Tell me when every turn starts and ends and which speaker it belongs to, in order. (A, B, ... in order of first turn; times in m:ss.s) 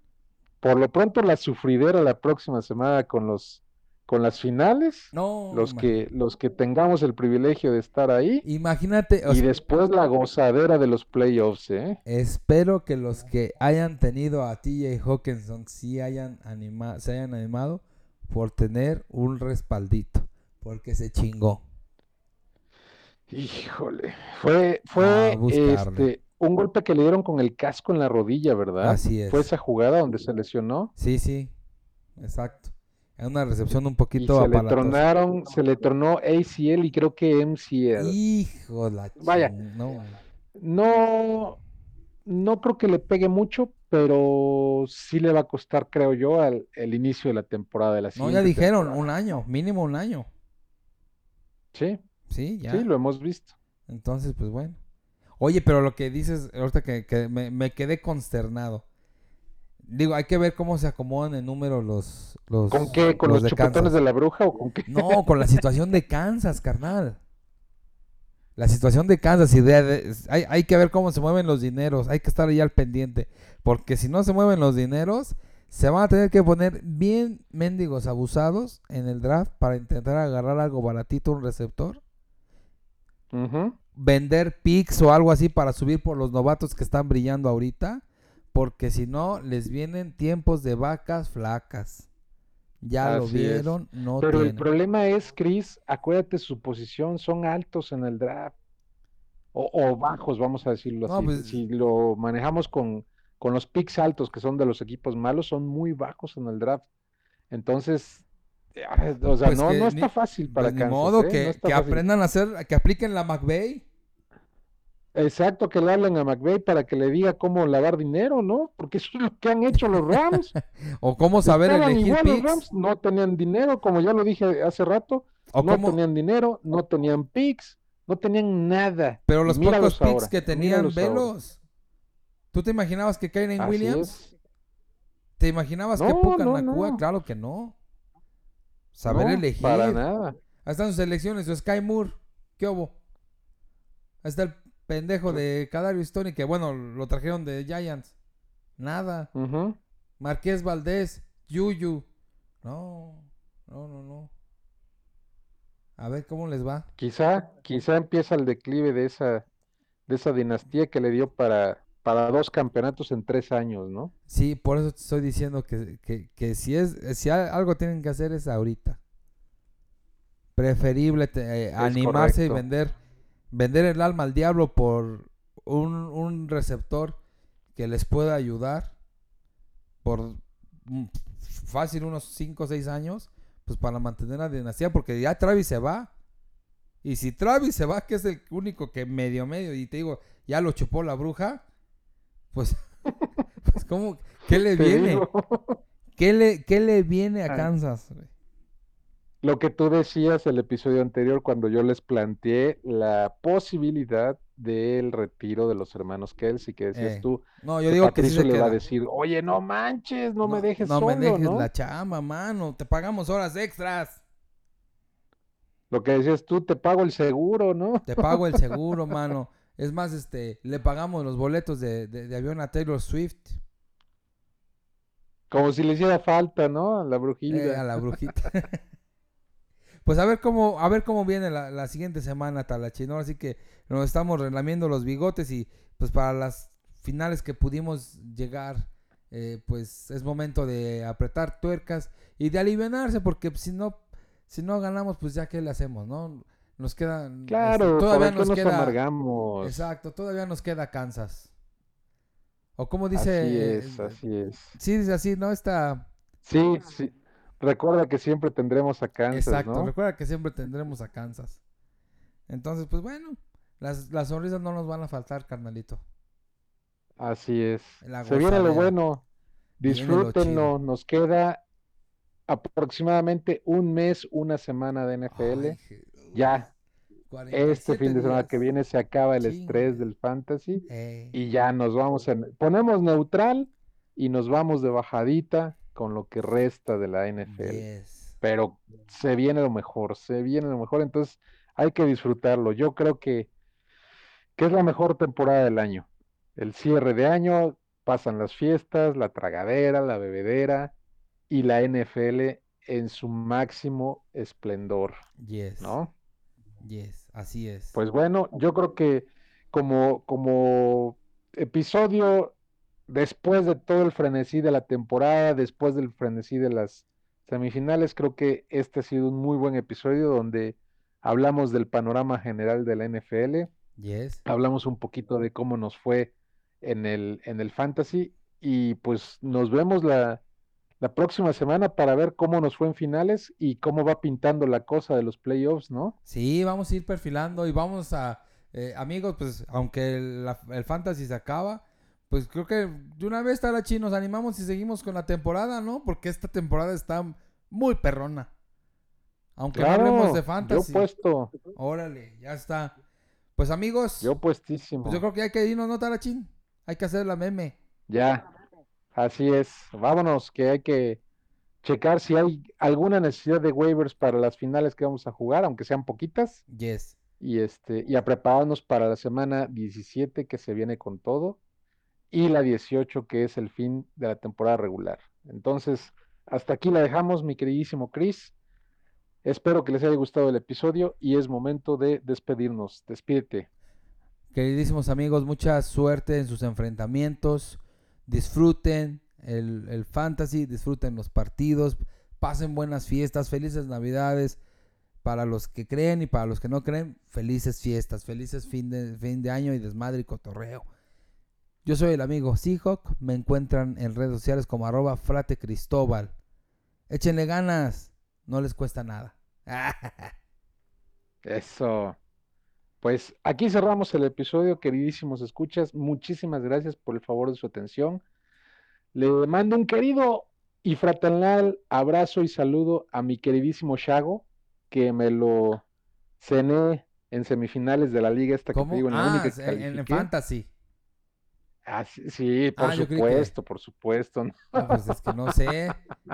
0:00.6-0:08.4 A
0:05.1-0:05.9 B
0:08.4-0:09.4 B
0:09.3-0:12.0 A
0:12.0-0:21.6 B
0:23.3-0:30.9 A
0:25.0-0:26.1 B
0:28.8-0:29.5 B
0:31.0-0:31.5 B
0:32.2-0:35.0 B
0:34.2-0:38.1 A
0:38.0-0:40.1 B
0:39.2-0:39.5 A
0:40.6-0:41.6 A
0:42.2-0:49.0 A
0:48.2-0:50.3 B
0:51.7-0:52.0 A
0:52.3-0:52.9 B
0:52.7-0:53.5 A
0:53.9-0:54.8 B
0:55.4-0:58.8 B
0:59.8-1:04.0 B
1:02.7-1:05.6 A
1:04.9-1:07.2 B
1:08.6-1:22.0 B
1:23.3-1:23.7 A
1:23.9-1:32.1 B
1:32.8-1:34.6 B
1:33.0-1:38.5 A
1:39.5-1:46.8 A
1:41.0-1:41.6 B
1:47.5-1:52.0 A
1:49.2-1:53.8 B
1:55.1-2:00.5 A
2:00.3-2:02.6 B
2:01.4-2:11.3 A
2:05.5-2:06.0 B
2:09.3-2:11.6 B
2:12.5-2:14.1 B
2:13.6-2:14.3 A
2:15.4-2:17.7 B
2:16.0-2:17.0 A
2:18.9-2:20.0 B
2:19.0-2:20.3 A
2:20.6-2:22.9 B
2:24.2-2:28.1 B
2:28.8-2:29.3 B
2:29.3-2:29.8 A
2:30.2-2:32.0 B
2:32.6-2:34.3 B
2:36.0-2:36.9 B
2:37.0-2:39.4 A
2:40.1-2:44.1 A
2:44.3-2:49.0 B
2:50.6-2:52.9 B
2:51.8-2:52.6 A
2:53.5-2:57.2 B
2:57.7-2:58.9 B
3:00.0-3:06.1 B
3:07.0-3:11.6 B
3:12.5-3:12.8 B
3:13.6-3:15.3 B
3:14.5-3:15.8 A
3:16.2-3:18.3 B
3:19.4-3:31.7 A
3:26.9-3:28.8 B
3:30.4-3:34.2 B
3:35.9-3:38.6 A
3:38.0-3:43.6 B
3:45.5-3:48.0 A
3:47.5-3:48.8 B
3:50.0-4:09.0 B
4:07.5-4:09.8 A
4:09.6-4:11.5 B
4:12.8-4:14.2 B
4:13.1-4:14.7 A
4:14.7-4:16.1 B
4:16.4-4:19.9 A
4:19.3-4:21.6 B
4:22.5-4:26.0 B
4:27.2-4:29.2 A
4:28.0-4:29.0 B
4:29.8-4:31.6 A
4:29.8-4:30.7 B
4:32.5-4:35.8 A
4:35.3-4:36.6 B
4:36.3-4:36.7 A
4:37.3-4:38.5 B
4:37.5-4:47.8 A
4:39.4-4:40.0 B
4:40.9-4:41.4 B
4:47.4-4:48.3 B
4:48.4-4:53.5 A
4:54.6-5:00.9 A
5:01.5-5:05.1 A
5:05.4-5:06.0 B
5:05.8-5:06.1 A
5:06.8-5:08.0 B
5:07.9-5:12.5 A
5:13.1-5:23.7 A
5:24.0-5:24.4 B
5:24.4-5:30.4 A
5:31.0-5:36.1 A
5:36.3-5:48.5 B
5:49.6-5:51.0 B
5:49.7-5:51.5 A
5:51.7-5:52.9 B
5:53.6-5:54.3 B
5:54.2-5:55.2 A
5:55.0-5:57.8 B
5:58.1-5:58.4 A
5:59.1-6:01.2 A
6:01.8-6:06.6 A
6:06.7-6:07.2 B
6:07.4-6:11.6 A
6:12.3-6:18.5 A
6:19.4-6:23.6 A
6:24.5-6:34.6 B
6:35.2-6:40.8 B
6:41.8-6:46.3 B
6:47.1-6:50.3 B
6:51.4-6:52.2 A
6:53.0-6:58.2 A
6:59.1-7:05.8 A
7:06.4-7:10.3 A
7:08.7-7:10.7 B
7:11.8-7:15.0 A
7:12.8-7:13.5 B
7:14.8-7:16.0 B